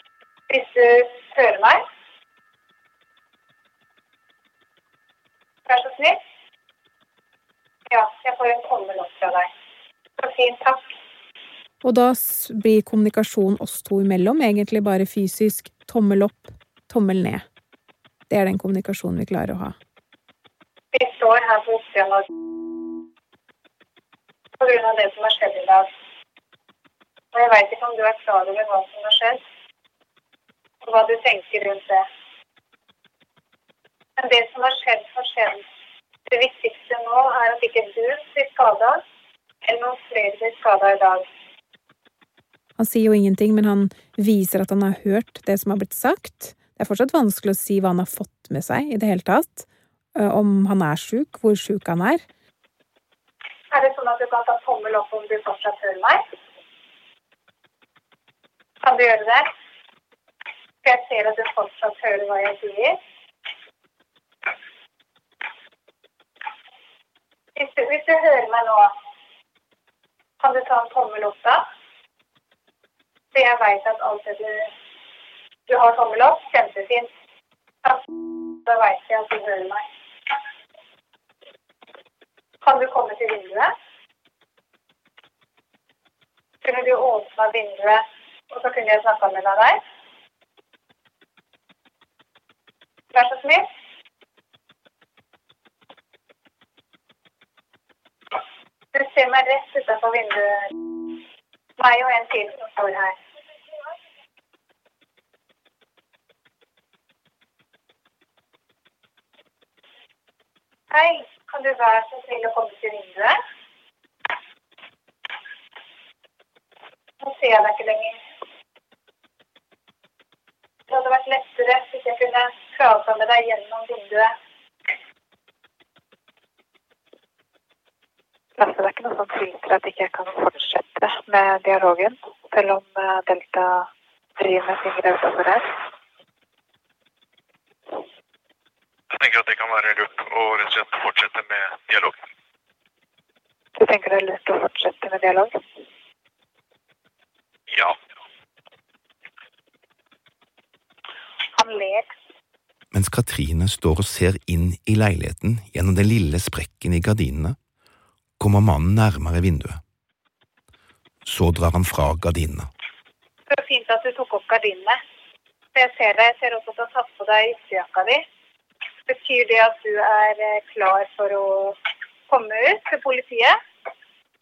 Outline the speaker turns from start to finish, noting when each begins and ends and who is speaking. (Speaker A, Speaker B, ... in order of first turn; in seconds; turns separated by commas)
Speaker A: 0.5-1.8, Speaker A: 5.7-6.2, Speaker A: 7.9-9.5, Speaker A: 10.2-10.9, Speaker B: 11.8-17.4, Speaker B: 18.3-19.8, Speaker A: 20.9-22.3, Speaker A: 24.6-25.9, Speaker A: 27.3-29.4, Speaker A: 30.8-32.0, Speaker A: 34.2-35.6, Speaker A: 36.3-39.0, Speaker A: 39.6-41.2, Speaker B: 42.8-52.2, Speaker A: 53.7-56.2, Speaker A: 58.8-59.5, Speaker A: 60.8-63.0, Speaker A: 67.5-68.9, Speaker A: 70.4-71.6, Speaker A: 73.3-74.7, Speaker A: 75.7-77.1, Speaker A: 78.7-79.8, Speaker A: 82.6-83.7, Speaker A: 86.6-89.8, Speaker A: 93.1-93.7, Speaker A: 98.9-100.7, Speaker A: 101.8-103.2, Speaker A: 110.9-113.4, Speaker A: 117.2-118.2, Speaker A: 120.9-124.3, Speaker C: 128.6-133.9, Speaker C: 134.4-135.7, Speaker D: 139.1-142.2, Speaker C: 143.8-145.5, Speaker D: 147.7-147.9, Speaker A: 151.6-152.1, Speaker E: 152.9-157.6, Speaker E: 158.4-159.8, Speaker E: 161.2-162.7, Speaker A: 163.5-165.0, Speaker A: 165.7-168.2, Speaker A: 169.1-171.8, Speaker A: 172.3-173.6